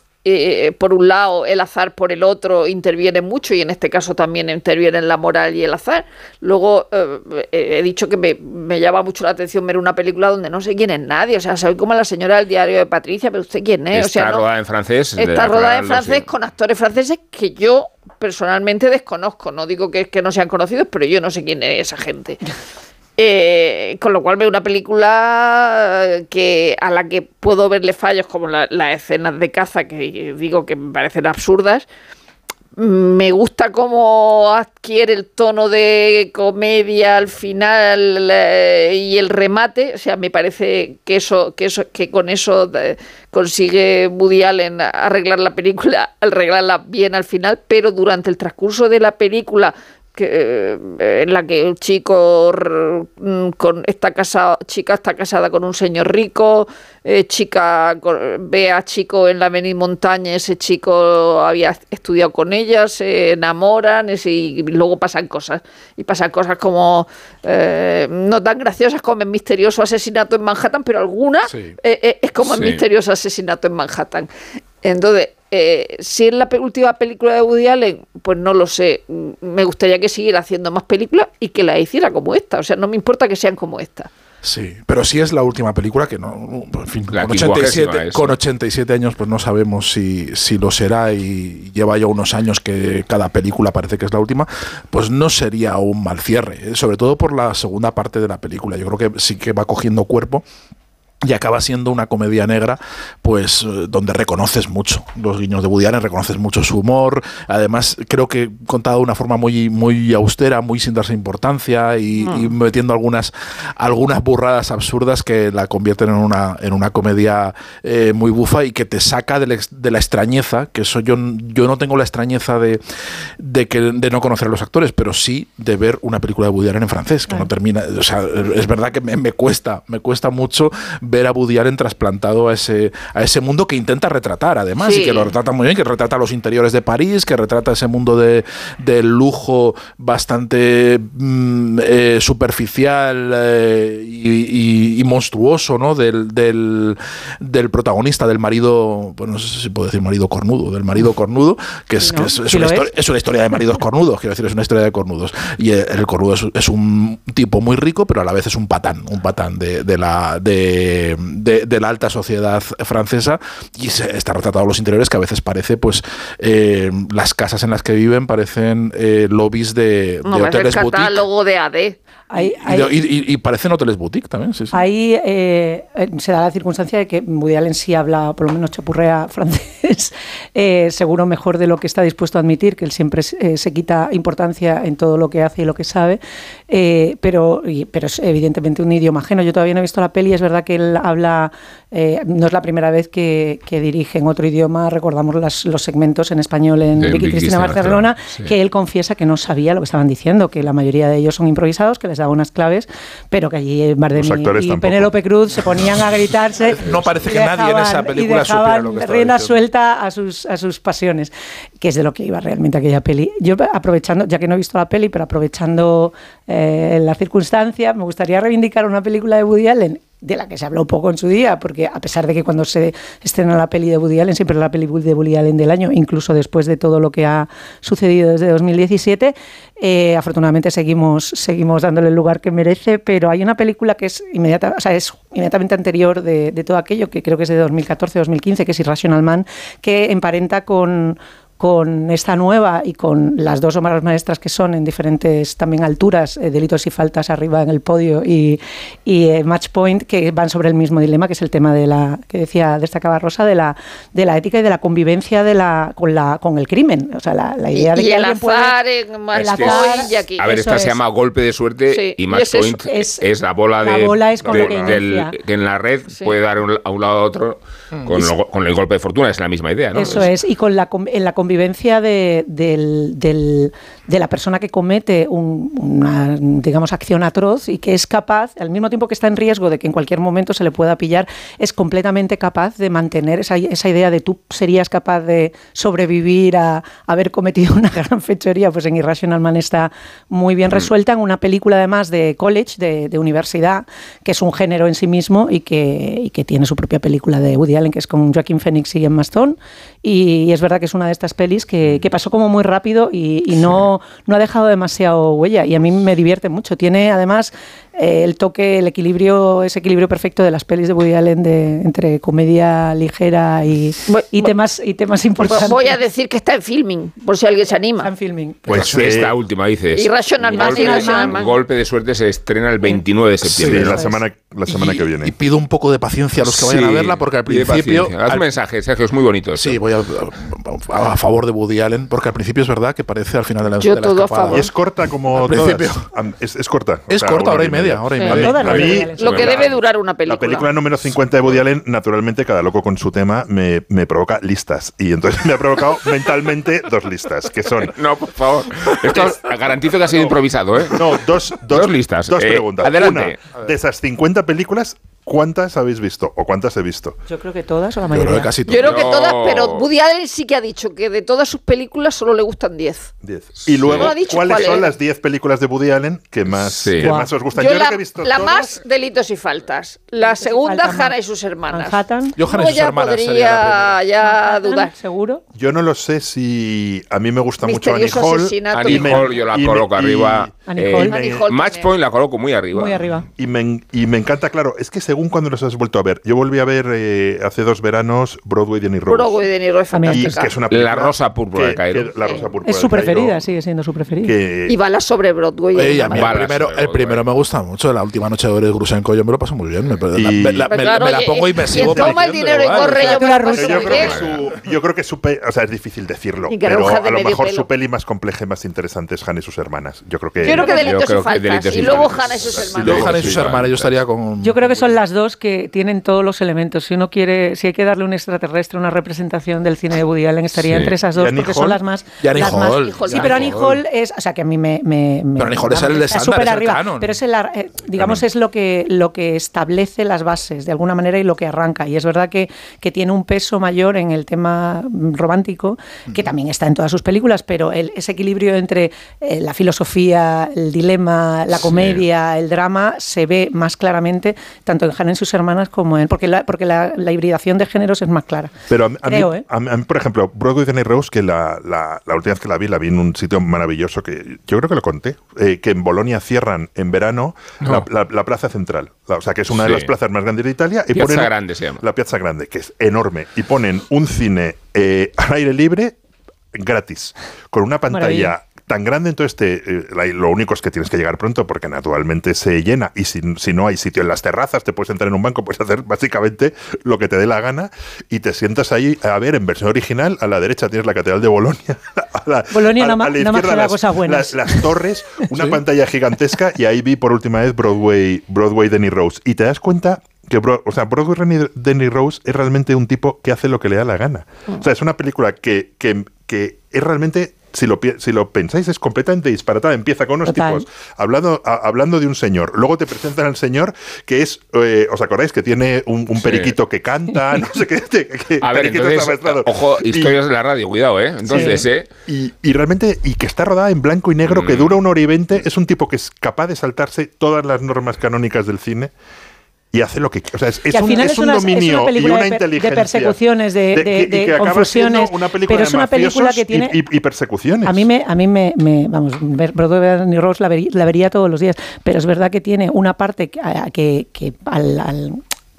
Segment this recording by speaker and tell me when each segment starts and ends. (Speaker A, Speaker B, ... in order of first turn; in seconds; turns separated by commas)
Speaker A: 0.2-14.4, Speaker B: 13.9-16.2, Speaker A: 15.2-22.4, Speaker A: 23.2-31.9, Speaker A: 32.8-74.3, Speaker C: 71.5-71.7, Speaker B: 72.4-72.8, Speaker A: 74.8-84.1, Speaker C: 84.4-100.4, Speaker B: 87.1-88.3, Speaker C: 101.2-122.8, Speaker C: 123.4-171.2, Speaker A: 134.8-135.3, Speaker D: 152.0-152.9, Speaker A: 170.2-171.9, Speaker D: 172.3-172.9, Speaker C: 172.3-174.8, Speaker D: 174.7-258.8, Speaker B: 197.0-198.5, Speaker E: 204.1-205.1, Speaker C: 206.6-209.6, Speaker A: 257.7-260.5, Speaker D: 259.3-260.9, Speaker B: 259.3-270.3, Speaker A: 261.9-262.8, Speaker D: 262.8-263.2, Speaker D: 263.8-265.3, Speaker E: 264.4-265.0, Speaker A: 266.1-266.4, Speaker C: 267.9-268.3, Speaker D: 269.9-316.0, Speaker A: 314.1-314.5, Speaker E: 315.4-315.7, Speaker A: 315.4-318.1, Speaker D: 318.0-318.7, Speaker E: 318.7-319.3, Speaker B: 318.7-324.0, Speaker C: 318.7-319.2, Speaker A: 319.9-321.6, Speaker D: 320.5-321.4, Speaker C: 323.5-323.9, Speaker E: 323.6-325.3, Speaker D: 323.8-324.2, Speaker C: 324.7-328.4, Speaker B: 326.4-329.8, Speaker C: 329.6-334.7, Speaker A: 333.8-334.7, Speaker E: 334.5-347.9, Speaker C: 335.3-336.1, Speaker C: 337.1-338.9, Speaker D: 338.2-339.5, Speaker B: 338.6-339.7, Speaker A: 339.0-340.7, Speaker B: 347.9-353.4, Speaker E: 349.1-349.4, Speaker E: 350.1-357.2, Speaker D: 357.3-358.5, Speaker C: 358.1-359.0, Speaker A: 358.7-363.1, Speaker B: 358.8-359.9, Speaker E: 363.2-368.8, Speaker B: 363.7-364.1, Speaker A: 363.9-364.9, Speaker B: 366.8-367.1, Speaker D: 367.0-367.3, Speaker A: 367.5-374.9, Speaker D: 370.2-371.1, Speaker D: 371.7-372.4, Speaker C: 372.4-373.9, Speaker D: 374.2-375.4, Speaker E: 375.5-381.5, Speaker A: 377.6-379.4, Speaker B: 378.7-383.1, Speaker D: 380.7-381.1, Speaker A: 381.1-381.9, Speaker D: 382.7-383.3, Speaker E: 383.4-389.4, Speaker A: 389.1-390.6, Speaker D: 389.9-390.3, Speaker E: 390.1-393.4, Speaker B: 390.7-392.1, Speaker A: 392.2-392.5, Speaker D: 392.6-394.3, Speaker E: 394.2-394.8, Speaker A: 394.7-396.3, Speaker C: 395.7-403.2, Speaker B: 396.1-397.2, Speaker E: 400.1-401.1, Speaker A: 400.6-404.3, Speaker E: 401.6-410.7, Speaker D: 403.0-404.1, Speaker B: 403.9-404.4, Speaker A: 406.5-407.7, Speaker A: 410.4-413.1, Speaker D: 410.4-410.9, Speaker B: 410.6-413.9, Speaker E: 411.7-413.5, Speaker C: 412.7-414.6, Speaker D: 414.4-448.5, Speaker B: 420.7-420.9, Speaker E: 421.1-421.8, Speaker C: 422.2-423.8, Speaker A: 422.8-423.5, Speaker C: 425.4-427.2, Speaker B: 441.6-442.0, Speaker E: 448.7-465.9, Speaker D: 449.0-449.4, Speaker B: 457.6-457.9, Speaker B: 459.5-459.9, Speaker B: 460.9-461.8, Speaker E: 466.5-510.2, Speaker D: 467.9-468.3, Speaker D: 482.5-484.6, Speaker C: 485.3-485.6, Speaker D: 500.2-500.6, Speaker B: 506.1-506.6, Speaker B: 508.4-511.9, Speaker E: 511.2-518.9, Speaker D: 511.3-511.6, Speaker B: 514.2-514.8, Speaker E: 519.7-523.2, Speaker D: 520.7-526.7, Speaker E: 523.7-527.9, Speaker D: 527.6-535.2